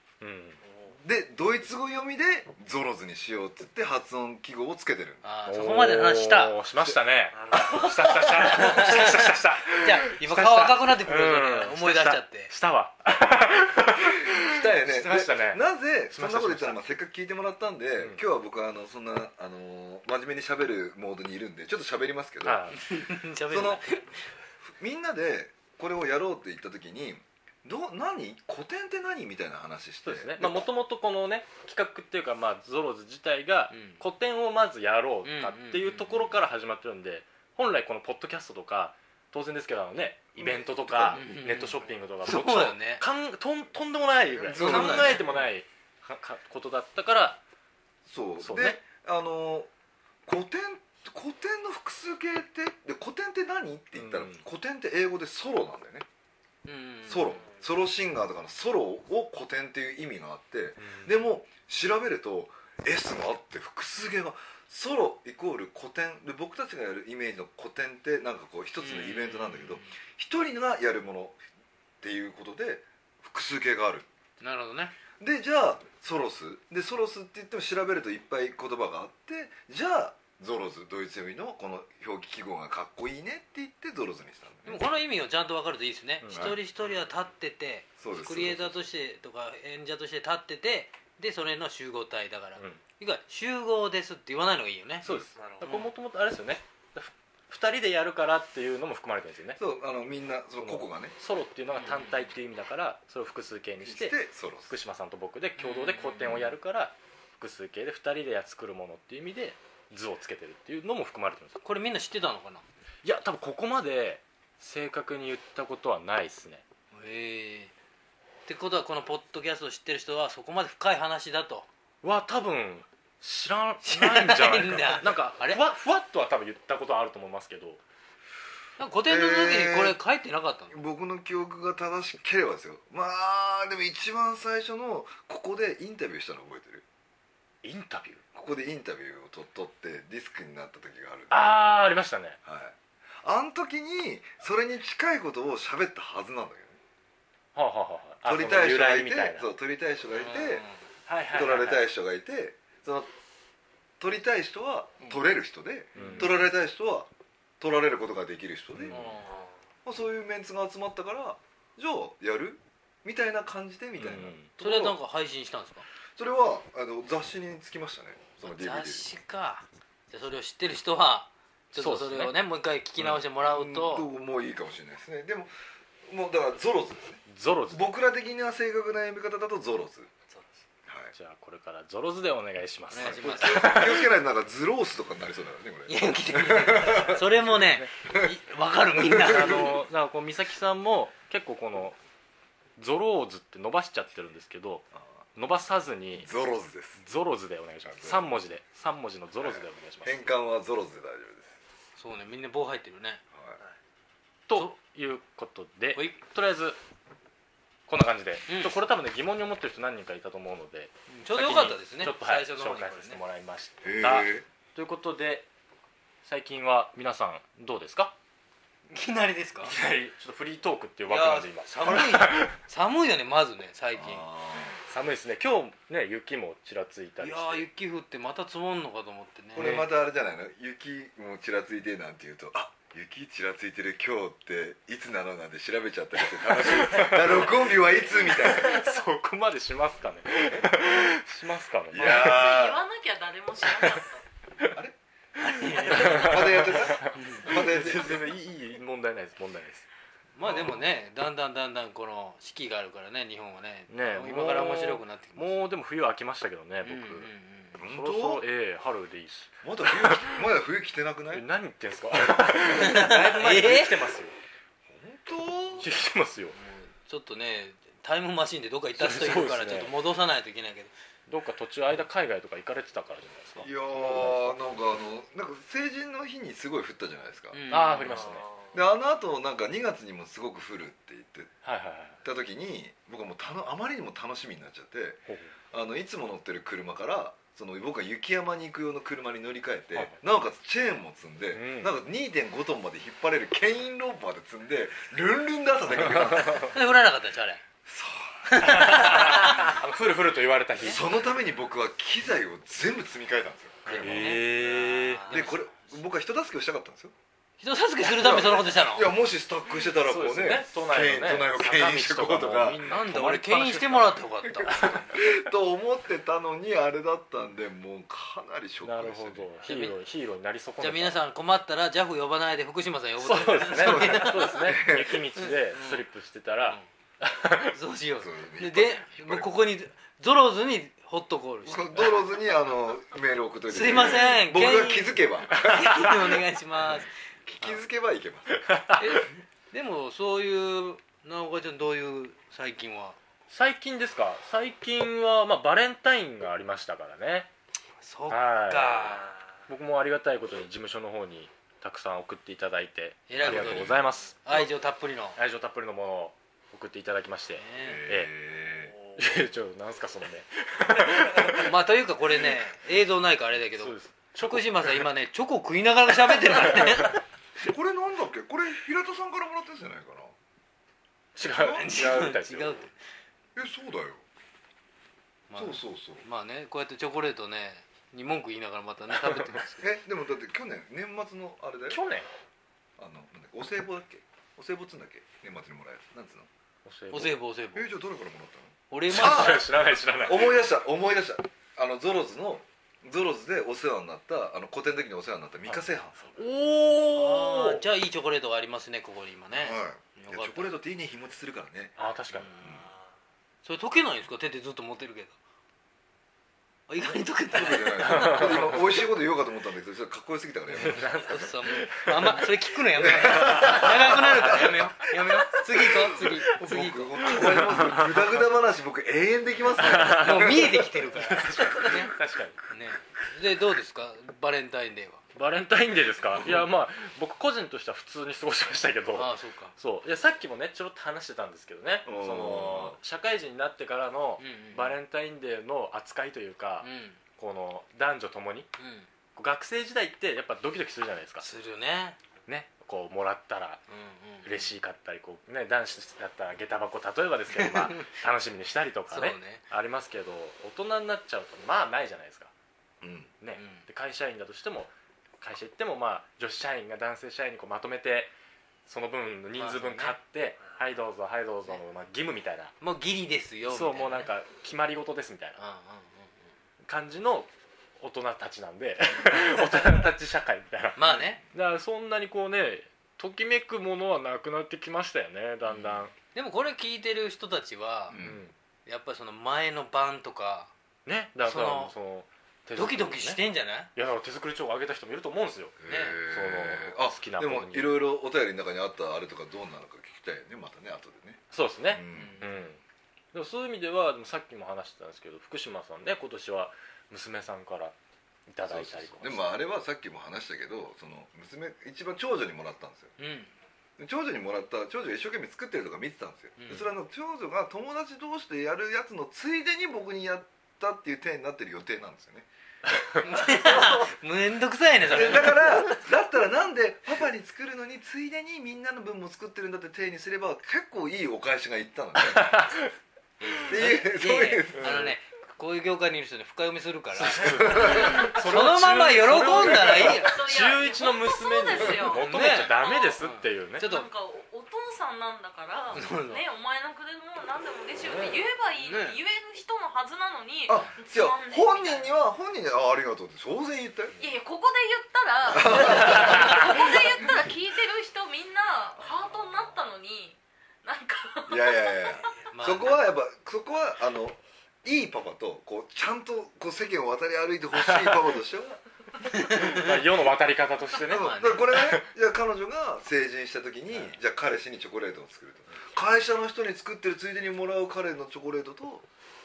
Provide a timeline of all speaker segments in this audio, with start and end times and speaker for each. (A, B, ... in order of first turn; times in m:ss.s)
0:00.2-0:00.6 A
0:01.0-0:05.3 B
0:05.2-0:06.6 C
0:05.5-0:16.8 A
0:07.3-0:07.8 D
0:07.5-0:07.9 B
0:07.6-0:12.5 C
0:08.4-0:09.0 B
0:14.4-0:22.8 B
0:22.4-0:22.8 A
0:22.8-0:24.2 C
0:23.5-0:23.8 B
0:24.6-0:30.6 B
0:30.0-0:47.4 A
0:33.7-0:34.0 C
0:35.2-0:36.4 C
0:40.4-0:41.2 B
0:41.1-0:43.0 C
0:44.4-0:45.4 B
0:44.5-0:45.4 C
0:48.0-0:49.7 B
0:48.4-0:48.8 A
0:50.3-0:56.1 B
0:53.9-0:54.4 A
0:56.6-0:57.4 C
0:57.1-1:11.4 B
1:00.8-1:01.2 A
1:08.8-1:09.9 C
1:12.0-1:14.1 B
1:14.4-1:15.0 C
1:15.2-1:24.8 B
1:24.7-1:35.1 C
1:26.2-1:26.6 A
1:26.3-1:26.6 B
1:28.0-1:28.9 B
1:35.0-1:35.3 B
1:35.0-1:39.6 A
1:35.4-1:35.7 D
1:35.6-1:35.9 C
1:39.6-1:41.2 B
1:40.6-1:51.6 A
1:41.8-1:42.2 C
1:43.8-1:44.7 B
1:45.6-1:46.5 C
1:51.6-1:52.6 C
1:53.0-1:56.6 A
1:56.9-1:57.7 C
1:58.5-2:01.7 C
2:02.0-2:07.8 A
2:03.8-2:05.6 C
2:08.8-2:10.8 C
2:09.1-2:10.0 B
2:10.7-2:16.8 B
2:17.6-2:18.2 A
2:18.3-2:21.9 B
2:21.3-2:22.4 A
2:22.4-2:26.8 B
2:27.6-2:29.5 A
2:28.2-2:30.7 B
2:30.1-2:30.8 C
2:31.1-2:31.8 A
2:31.3-2:33.1 B
2:34.0-2:37.1 B
2:36.0-2:36.4 C
2:36.0-2:36.4 A
2:37.6-2:39.0 B
2:38.8-2:39.2 A
2:38.9-2:39.4 C
2:39.2-2:39.5 D
2:39.9-2:45.0 B
2:44.0-2:44.5 A
2:44.6-2:45.9 C
2:46.2-2:49.1 B
2:48.4-2:54.1 C
2:51.8-2:52.4 A
2:53.3-2:55.5 B
2:56.1-3:00.1 B
2:57.3-2:57.9 A
3:00.3-3:00.6 D
3:00.9-3:01.1 B
3:01.1-3:04.2 A
3:02.9-3:03.9 C
3:03.0-3:07.6 B
3:05.9-3:09.8 C
3:09.0-3:09.8 B
3:09.2-3:12.0 A
3:12.8-3:16.3 A
3:16.2-3:17.0 B
3:17.0-3:20.3 A
3:17.9-3:18.3 B
3:19.4-3:21.6 B
3:22.0-3:23.2 C
3:23.3-3:23.6 B
3:24.5-3:26.8 A
3:27.9-3:35.5 A
3:28.5-3:28.7 C
3:31.1-3:33.2 C
3:33.8-3:34.4 B
3:36.2-3:38.2 A
3:38.9-3:39.7 C
3:39.6-3:42.5 A
3:41.1-3:44.3 C
3:44.0-3:44.8 B
3:44.9-3:47.7 A
3:47.2-3:49.8 C
3:49.6-3:58.8 B
3:49.6-3:49.8 A
3:56.5-3:57.6 A
3:58.2-4:02.6 A
4:00.3-4:00.8 B
4:01.9-4:02.8 B
4:02.0-4:04.2 E
4:04.7-4:05.0 B
4:05.4-4:07.6 C
4:05.8-4:09.9 A
4:05.8-4:08.2 B
4:10.4-4:15.6 C
4:10.4-4:10.8 B
4:13.9-4:17.3 A
4:16.8-4:17.8 C
4:17.8-4:18.4 B
4:17.9-4:20.4 A
4:19.6-4:21.4 B
4:21.3-4:24.3 A
4:22.8-4:24.0 C
4:24.9-4:25.9 B
4:25.8-4:26.6 A
4:26.6-4:30.9 C
4:29.0-4:29.9 A
4:31.3-4:34.6 A
4:33.6-4:37.6 B
4:37.5-4:38.3 C
4:37.7-4:38.5 A
4:38.2-4:38.8 D
4:38.7-4:41.5 B
4:41.6-4:42.2 A
4:42.2-4:56.7 B
4:45.3-4:45.5 A
4:50.0-4:50.2 A
4:51.5-4:52.0 A
4:55.9-4:56.7 A
4:56.6-4:57.6 C
4:57.9-4:59.1 B
4:58.5-4:59.7 C
4:58.6-5:01.0 A
5:00.8-5:04.4 B
5:03.9-5:05.5 A
5:03.9-5:05.7 C
5:05.3-5:07.1 B
5:07.6-5:09.1 C
5:08.0-5:12.9 B
5:10.0-5:15.3 A
5:12.9-5:15.1 C
5:14.4-5:19.5 B
5:18.8-5:21.2 A
5:19.6-5:20.0 C
5:20.8-5:24.7 C
5:23.2-5:27.8 A
5:23.7-5:25.2 B
5:25.4-5:26.1 C
5:27.7-5:32.2 C
5:28.2-5:29.5 B
5:31.7-5:36.4 B
5:33.7-5:37.1 C
5:37.5-5:38.6 B
5:38.6-5:39.2 A
5:39.0-5:43.2 C
5:43.5-5:47.5 A
5:48.0-5:49.2 C
5:48.3-5:54.7 A
5:53.3-5:55.4 C
5:53.4-5:54.0 B
5:55.4-5:58.3 A
5:57.6-5:58.1 C
5:57.8-5:58.9 B
5:59.2-6:01.7 A
6:01.6-6:07.2 C
6:03.8-6:05.0 A
6:06.6-6:07.1 A
6:07.6-6:10.3 B
6:11.4-6:12.9 A
6:11.4-6:13.0 C
6:11.6-6:11.8 B
6:13.6-6:14.2 B
6:15.5-6:19.9 C
6:15.6-6:16.2 B
6:19.2-6:19.6 A
6:19.8-6:22.0 B
6:21.9-6:22.3 A
6:23.0-6:26.5 B
6:26.8-6:27.4 A
6:27.1-6:27.9 C
6:27.7-6:29.7 B
6:28.9-6:29.7 C
6:29.1-6:30.6 A
6:30.2-6:36.2 B
6:35.7-6:37.8 A
6:36.4-6:40.7 C
6:39.5-6:42.0 B
6:42.0-6:42.5 A
6:42.4-6:42.7 C
6:43.6-6:45.4 C
6:46.9-6:48.8 C
6:47.5-6:51.4 B
6:48.0-6:48.8 A
6:50.8-6:52.6 A
6:50.8-6:57.7 C
6:53.0-7:00.9 B
6:53.2-6:54.7 A
6:57.4-6:58.2 A
6:59.8-7:02.7 A
7:00.0-7:02.2 C
7:02.7-7:05.2 C
7:05.4-7:18.7 A
7:09.2-7:09.7 C
7:12.1-7:13.0 B
7:14.4-7:15.0 C
7:16.8-7:17.2 C
7:18.8-7:19.1 C
7:19.4-7:21.5 A
7:21.4-7:22.2 C
7:22.4-7:23.8 A
7:23.9-7:24.7 C
7:24.4-7:32.5 A
7:27.6-7:28.1 C
7:29.1-7:29.6 C
7:33.0-7:33.3 B
7:33.4-7:38.3 A
7:33.6-7:33.8 C
7:38.9-7:42.7 A
7:39.6-7:40.2 C
7:42.8-7:44.3 C
7:43.7-7:45.6 A
7:45.6-7:46.5 C
7:46.8-7:56.1 A
7:49.1-7:50.1 C
7:51.0-7:51.4 C
7:55.7-7:58.2 C
7:58.1-7:58.4 B
7:58.1-7:58.5 A
7:58.9-8:00.7 C
8:01.1-8:03.4 A
8:01.4-8:02.0 C
8:02.8-8:03.9 C
8:04.0-8:08.0 A
8:05.8-8:12.4 B
8:05.9-8:06.2 C
8:11.5-8:12.8 A
8:12.1-8:12.6 C
8:13.3-8:18.0 A
8:18.5-8:19.5 A
8:18.7-8:23.2 B
8:23.2-8:23.5 C
8:24.0-8:32.5 B
8:26.6-8:26.9 C
8:33.2-8:36.0 C
8:33.6-8:34.1 B
8:35.1-8:42.7 B
8:42.2-8:42.9 A
8:43.4-8:50.4 C
8:43.6-8:45.2 B
8:44.8-8:45.1 A
8:47.2-8:53.9 A
8:47.4-8:48.2 B
8:49.8-8:50.2 B
8:50.1-8:53.2 E
8:52.0-8:54.1 C
8:53.8-9:02.1 E
8:55.9-8:56.4 C
8:58.0-8:58.4 A
8:58.8-8:59.2 C
9:00.7-9:04.2 B
9:04.2-9:12.4 E
9:05.5-9:07.2 B
9:11.5-9:18.8 B
9:12.5-9:13.1 C
9:17.8-9:18.2 A
9:19.3-9:20.0 C
9:19.4-9:22.0 A
9:21.0-9:29.1 B
9:21.1-9:21.8 C